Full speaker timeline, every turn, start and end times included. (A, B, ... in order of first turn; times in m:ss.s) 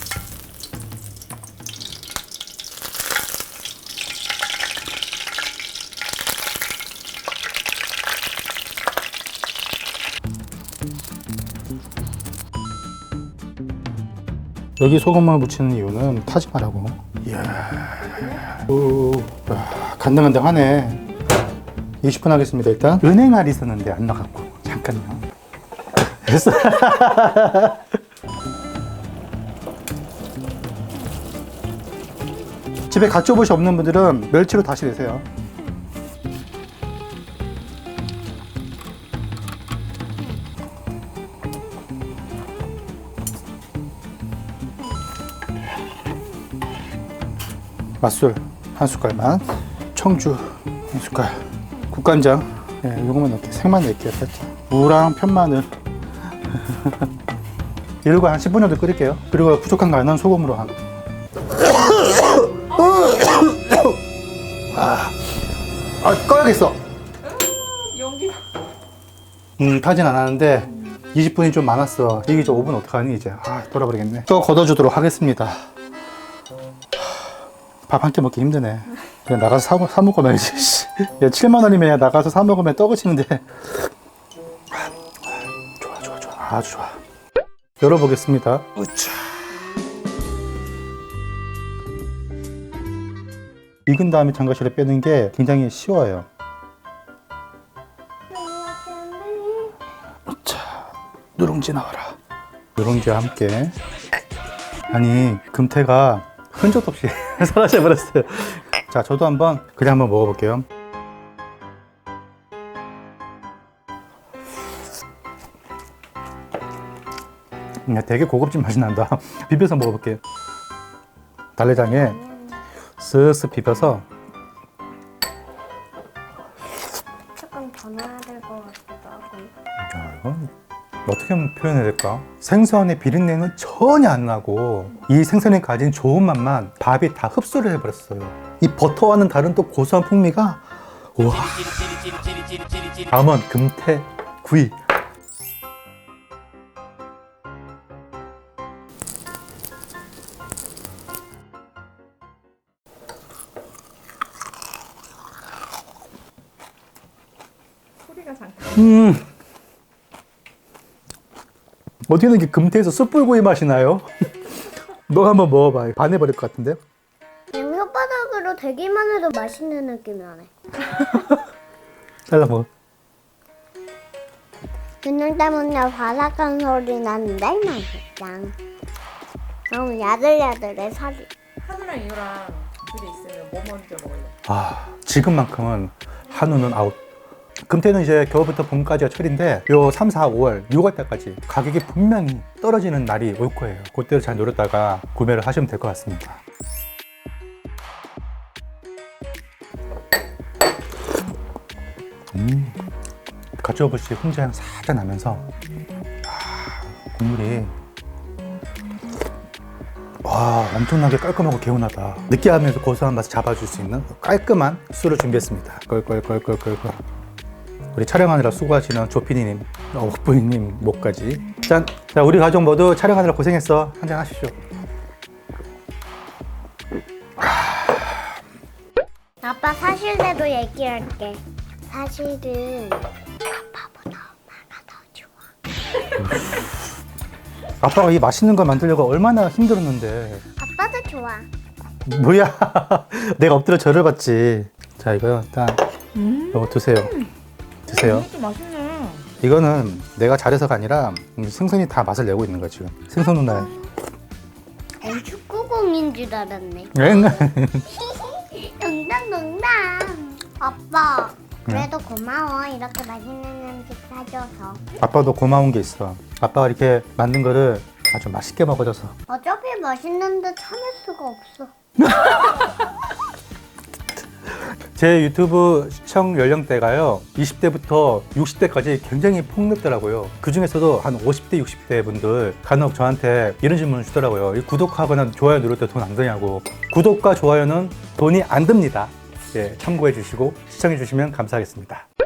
0:14.8-0:21.0 A
0:22.0-0:25.2 A
0:26.0-0:27.9 A
0:32.9-0:35.2 A
0:48.0-0:55.7 A
0:56.5-0:57.0 A
0:58.0-1:00.8 A
1:01.8-1:03.9 A
1:04.7-1:05.2 A
1:06.0-1:06.8 A
1:07.3-1:08.4 B
1:09.6-1:15.6 A
1:17.9-1:23.9 A
1:24.7-1:27.0 A
1:27.8-1:29.2 A
1:33.8-1:36.3 A
1:38.3-1:39.7 C
1:40.3-1:42.2 A
1:42.8-1:43.8 A
1:44.9-1:50.7 A
1:57.8-2:00.2 A
2:01.6-2:02.2 A
2:01.8-2:02.6 C
2:03.0-2:04.0 A
2:07.4-2:09.5 C
2:09.8-2:10.5 A
2:11.0-2:20.6 A
2:21.1-2:24.8 A
2:38.0-2:38.8 B
2:38.7-2:39.3 A
2:42.1-2:44.1 A
2:45.0-2:46.8 A
2:47.5-2:50.5 C
2:50.8-2:51.4 A
2:52.3-2:52.7 A
2:55.0-2:58.5 C
2:59.7-3:01.3 C
3:01.6-3:04.3 B
3:04.4-3:07.0 A
3:07.6-3:16.4 A
3:22.3-3:22.8 A
3:23.6-3:25.4 A
3:26.2-3:27.7 A
3:30.2-3:37.0 A
3:37.9-3:44.6 A
3:49.4-3:55.4 C
3:56.2-3:56.7 A
3:57.8-4:00.4 A
4:00.6-4:01.5 C
4:02.0-4:07.2 A
4:06.2-4:06.6 B
4:07.9-4:08.3 A
4:07.9-4:09.2 B
4:09.4-4:13.8 A
4:15.0-4:24.8 C
4:16.9-4:17.9 A
4:25.0-4:29.2 A
4:29.3-4:31.7 C
4:32.0-4:32.6 A
4:34.9-4:52.0 A